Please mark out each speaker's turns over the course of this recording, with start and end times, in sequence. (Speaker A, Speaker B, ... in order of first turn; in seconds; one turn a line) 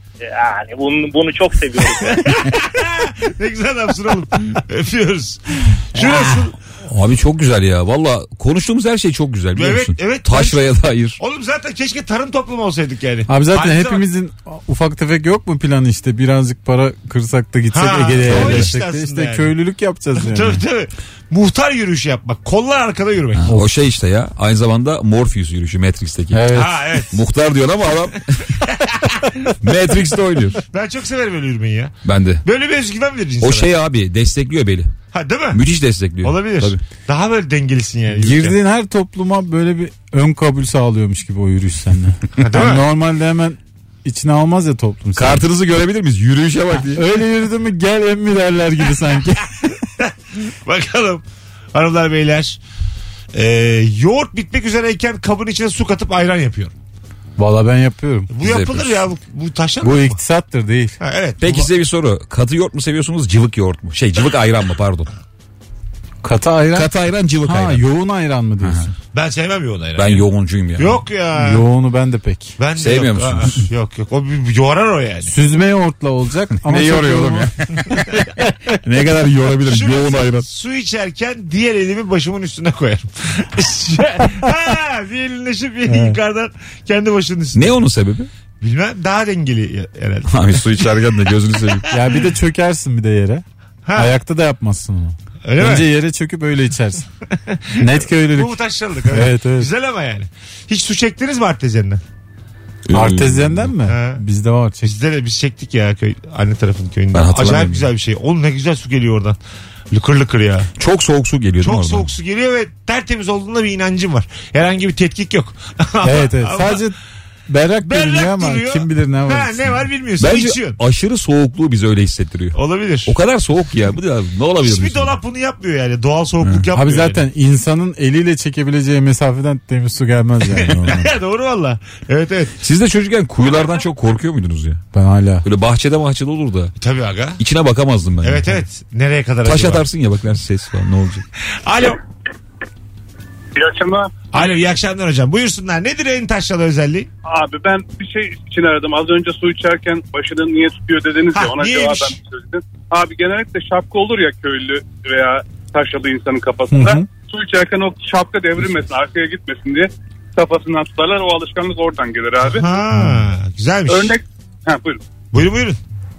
Speaker A: 0.2-2.4
Speaker B: 2.2-6.5
Speaker C: 6.8-11.2
Speaker B: 9.5-10.7
Speaker B: 11.2-14.0
Speaker D: 13.3-20.6
Speaker B: 17.7-19.5
Speaker C: 18.2-18.7
Speaker B: 20.2-23.5
Speaker C: 23.3-28.5
Speaker D: 26.3-27.0
Speaker B: 26.5-27.2
Speaker B: 28.5-29.5
Speaker C: 29.6-30.6
Speaker B: 30.7-33.7
Speaker C: 32.0-32.4
Speaker C: 33.4-34.9
Speaker B: 35.1-35.6
Speaker C: 35.5-36.8
Speaker B: 36.2-38.6
Speaker D: 38.1-45.5
Speaker B: 42.4-42.9
Speaker C: 45.1-47.0
Speaker D: 46.9-49.7
Speaker B: 50.0-52.6
Speaker B: 53.3-56.7
Speaker D: 57.4-58.3
Speaker B: 58.3-60.2
Speaker C: 58.4-59.0
Speaker D: 59.8-61.0
Speaker B: 61.0-61.7
Speaker C: 61.4-65.1
Speaker D: 66.2-66.9
Speaker C: 66.7-67.8
Speaker D: 67.4-68.9
Speaker C: 68.6-68.9
Speaker B: 69.1-70.2
Speaker C: 69.9-71.0
Speaker B: 70.8-71.6
Speaker D: 71.3-72.5
Speaker B: 72.6-75.3
Speaker C: 72.8-73.7
Speaker D: 75.3-77.5
Speaker C: 76.6-78.2
Speaker C: 78.7-80.5
Speaker B: 79.7-87.8
Speaker D: 85.9-86.2
Speaker C: 87.5-88.3
Speaker B: 88.6-90.9
Speaker C: 90.3-91.9
Speaker D: 91.9-93.4
Speaker B: 93.8-94.1
Speaker D: 93.9-97.1
Speaker B: 95.4-95.9
Speaker B: 97.3-102.0
Speaker D: 97.8-98.6
Speaker D: 99.1-99.7
Speaker C: 102.8-103.7
Speaker D: 102.9-104.9
Speaker B: 103.8-104.2
Speaker B: 104.8-109.4
Speaker C: 107.1-107.9
Speaker B: 109.9-110.7
Speaker C: 110.8-112.1
Speaker B: 111.6-116.8
Speaker D: 116.0-117.0
Speaker D: 117.5-119.8
Speaker B: 117.8-120.8
Speaker C: 120.2-125.2
Speaker B: 122.5-123.1
Speaker B: 124.6-127.2
Speaker C: 126.4-126.7
Speaker D: 126.7-131.1
Speaker B: 130.6-132.5
Speaker C: 132.6-134.8
Speaker D: 134.9-135.4
Speaker C: 135.4-136.7
Speaker B: 136.8-137.4
Speaker C: 137.4-138.6
Speaker B: 138.2-139.8
Speaker C: 139.4-141.2
Speaker B: 141.6-142.0
Speaker E: 143.5-144.2
Speaker B: 144.3-147.1
Speaker E: 147.2-162.7
Speaker B: 151.3-152.1
Speaker D: 156.7-157.0
Speaker B: 162.4-164.2
Speaker D: 162.9-163.2
Speaker E: 163.9-165.0
Speaker B: 165.3-165.8